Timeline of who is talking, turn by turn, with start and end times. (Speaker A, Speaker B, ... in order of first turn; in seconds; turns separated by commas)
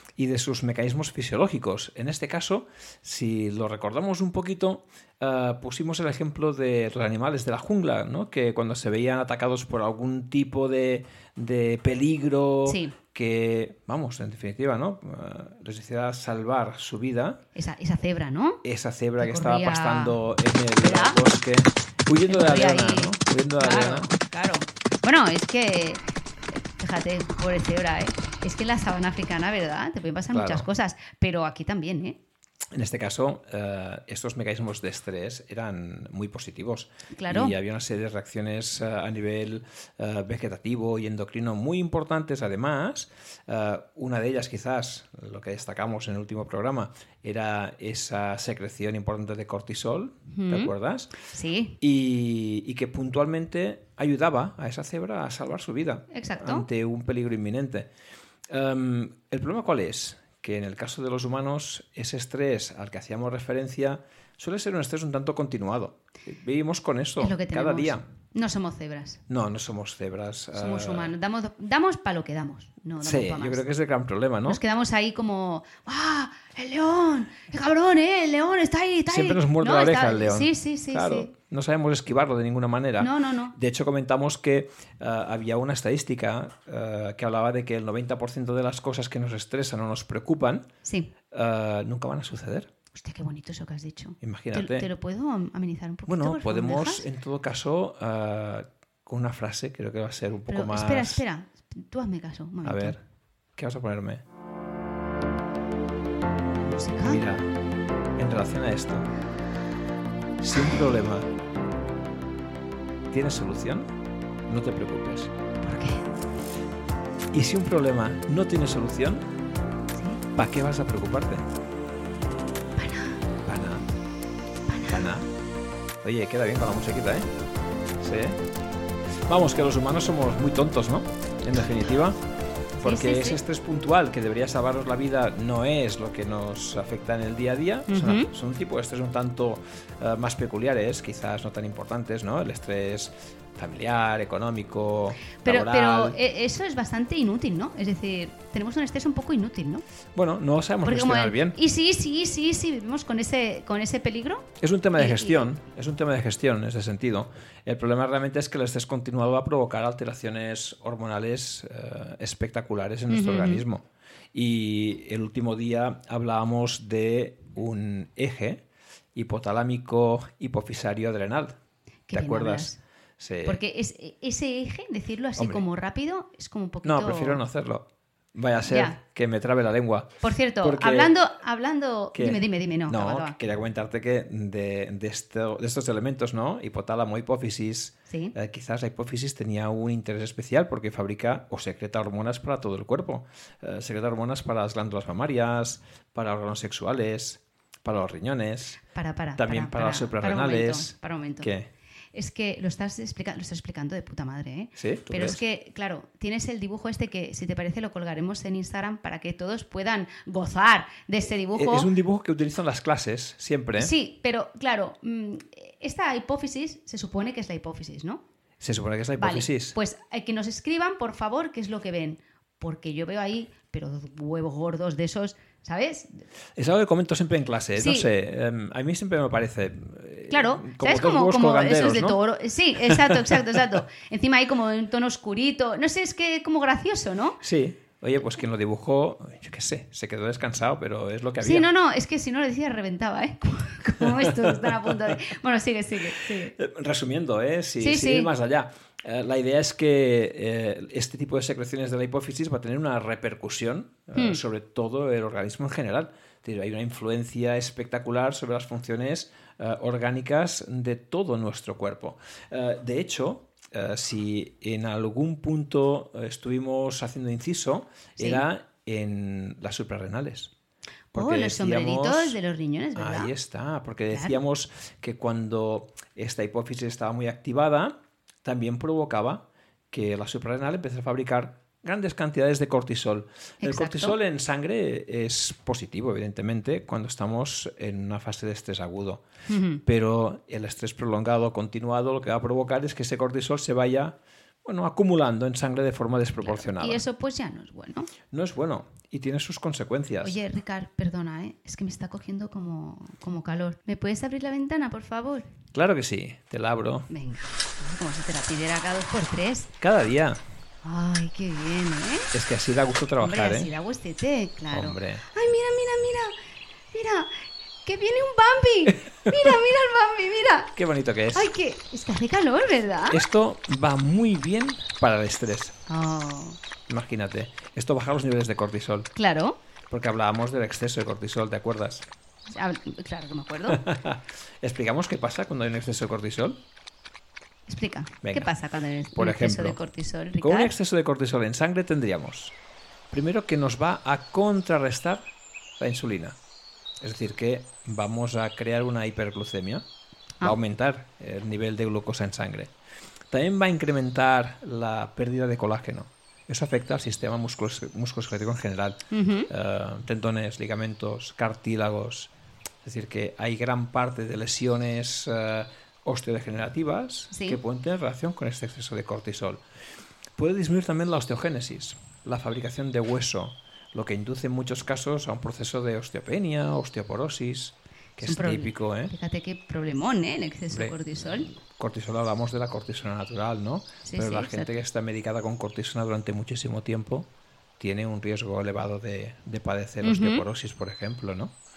Speaker A: 0.2-17.4, Speaker B: 12.7-12.9, Speaker B: 17.6-18.6, Speaker A: 18.6-24.1, Speaker B: 19.2-20.2, Speaker B: 20.8-21.2, Speaker B: 22.3-32.2, Speaker A: 30.3-30.6, Speaker A: 32.7-51.1, Speaker B: 37.1-37.5, Speaker B: 50.3-50.7, Speaker B: 51.2-51.8, Speaker A: 51.8-57.9, Speaker B: 56.1-56.7, Speaker A: 58.5-68.0, Speaker B: 67.2-69.2, Speaker A: 69.3-71.1, Speaker B: 70.5-73.6, Speaker A: 73.0-74.6, Speaker B: 74.5-81.3, Speaker A: 79.1-90.7, Speaker B: 83.0-83.5, Speaker B: 90.8-91.1, Speaker A: 91.3-92.7, Speaker B: 92.9-97.1, Speaker A: 94.2-94.9, Speaker A: 96.1-101.2, Speaker B: 100.5-103.0, Speaker A: 102.6-103.0, Speaker A: 103.6-104.2, Speaker B: 106.6-107.2, Speaker A: 107.0-107.5, Speaker A: 108.2-109.1, Speaker A: 110.4-111.3, Speaker A: 113.1-113.9, Speaker A: 114.5-115.3, Speaker B: 115.6-116.0, Speaker A: 117.3-119.3, Speaker B: 119.9-120.2, Speaker A: 120.3-121.5, Speaker B: 122.8-123.2, Speaker A: 123.5-124.0, Speaker B: 124.7-125.1, Speaker A: 124.9-125.3, Speaker A: 126.0-127.3, Speaker A: 128.0-128.4, Speaker A: 129.3-132.2, Speaker A: 132.8-146.2, Speaker B: 132.8-133.4, Speaker B: 137.9-138.3, Speaker B: 145.4-149.8, Speaker A: 150.2-151.6, Speaker B: 150.8-155.5, Speaker A: 154.6-163.8, Speaker B: 163.1-163.7, Speaker A: 164.3-168.6, Speaker A: 169.2-171.6, Speaker B: 172.1-172.8, Speaker A: 172.1-173.6, Speaker B: 173.4-177.4, Speaker A: 175.4-175.6, Speaker A: 176.8-181.1, Speaker B: 178.7-179.0, Speaker B: 180.2-183.3, Speaker A: 182.1-198.8, Speaker B: 198.9-201.5, Speaker A: 199.4-201.7, Speaker B: 202.1-211.9, Speaker A: 204.8-205.4, Speaker A: 211.5-213.9, Speaker B: 213.8-218.2, Speaker A: 218.6-219.8, Speaker B: 219.2-226.1, Speaker A: 226.6-232.2, Speaker B: 227.8-228.1, Speaker B: 230.3-237.4, Speaker A: 232.9-233.4, Speaker A: 237.4-241.7, Speaker B: 241.4-246.5, Speaker A: 244.0-244.9, Speaker A: 246.4-270.5, Speaker B: 247.8-248.3, Speaker B: 254.2-254.4, Speaker B: 268.2-268.4, Speaker A: 271.1-272.4, Speaker B: 271.1-273.3, Speaker A: 272.9-289.2, Speaker B: 274.1-274.4, Speaker B: 283.6-284.2, Speaker B: 289.5-289.8, Speaker A: 289.9-297.0, Speaker B: 296.4-298.1, Speaker A: 298.3-300.4, Speaker B: 300.2-305.5, Speaker A: 305.7-307.1, Speaker B: 307.1-309.7, Speaker A: 309.8-310.4, Speaker B: 310.8-312.3, Speaker A: 312.3-313.7, Speaker B: 313.2-316.4, Speaker A: 314.7-315.2, Speaker B: 316.9-317.3, Speaker B: 317.8-320.7, Speaker A: 320.8-321.5, Speaker B: 321.3-323.2, Speaker A: 323.1-325.8, Speaker B: 325.9-326.6, Speaker A: 326.9-329.1, Speaker B: 329.2-329.6, Speaker A: 329.9-332.1, Speaker B: 332.5-333.8, Speaker A: 333.7-336.6, Speaker B: 337.7-340.7, Speaker A: 338.2-338.5, Speaker A: 339.1-339.8, Speaker A: 340.4-342.5, Speaker A: 343.1-345.3, Speaker A: 345.8-346.4, Speaker A: 347.0-349.9, Speaker A: 350.4-352.7, Speaker A: 353.3-362.3, Speaker B: 359.1-359.5, Speaker A: 362.8-369.6, Speaker B: 367.3-367.6, Speaker A: 370.4-379.1, Speaker B: 378.2-381.5, Speaker A: 380.7-387.3, Speaker B: 384.1-384.7, Speaker A: 387.8-391.6, Speaker B: 390.0-390.4